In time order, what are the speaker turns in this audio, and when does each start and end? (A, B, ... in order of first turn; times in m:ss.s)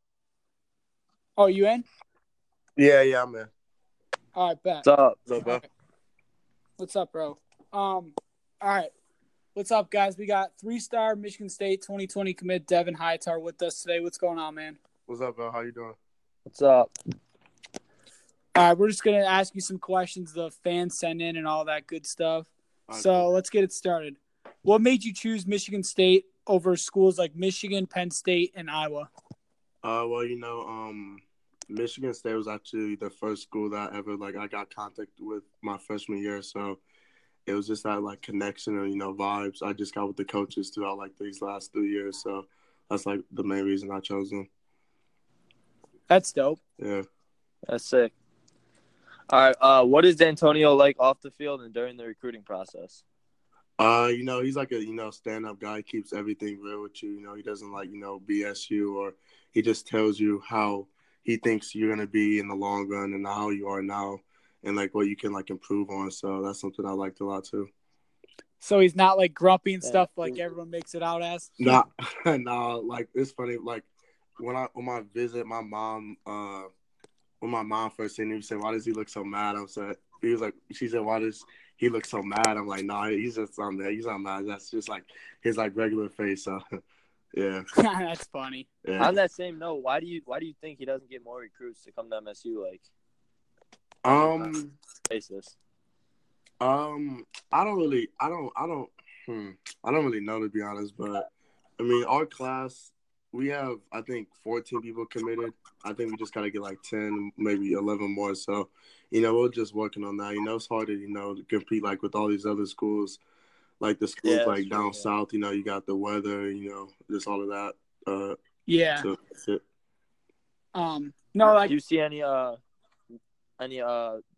0:01.4-0:01.9 A
0:02.8-0:03.5 B
0:04.4-0:04.9 A
0:04.8-0:05.2 C
0:05.3-0:05.6 B
0:05.4-0:05.6 A
0:06.8-0:08.9 A
0:09.5-0:14.8 A
0:15.1-0:16.0 B
0:16.5-0:16.9 C
0:18.6-0:29.1 A
0:22.9-0:23.3 B
0:29.8-0:36.8 B
0:37.5-0:44.5 B
0:46.1-0:46.6 A
0:46.8-0:47.0 B
0:47.7-0:48.1 C
0:49.3-0:53.0 C
0:53.8-1:07.7 B
1:08.6-1:11.8 A
1:09.8-1:10.4 C
1:11.6-1:16.7 B
1:17.4-1:26.6 B
1:27.3-1:27.6 B
1:27.8-1:28.7 A
1:28.8-1:29.2 B
1:29.0-1:32.8 C
1:34.0-1:34.8 B
1:34.1-1:34.5 C
1:35.1-1:35.6 C
1:36.6-1:53.2 B
1:53.8-1:58.4 B
1:54.2-1:55.1 C
1:58.7-1:59.1 A
1:59.0-1:59.6 B
2:00.7-2:01.8 A
2:01.5-2:02.6 C
2:03.6-2:04.2 C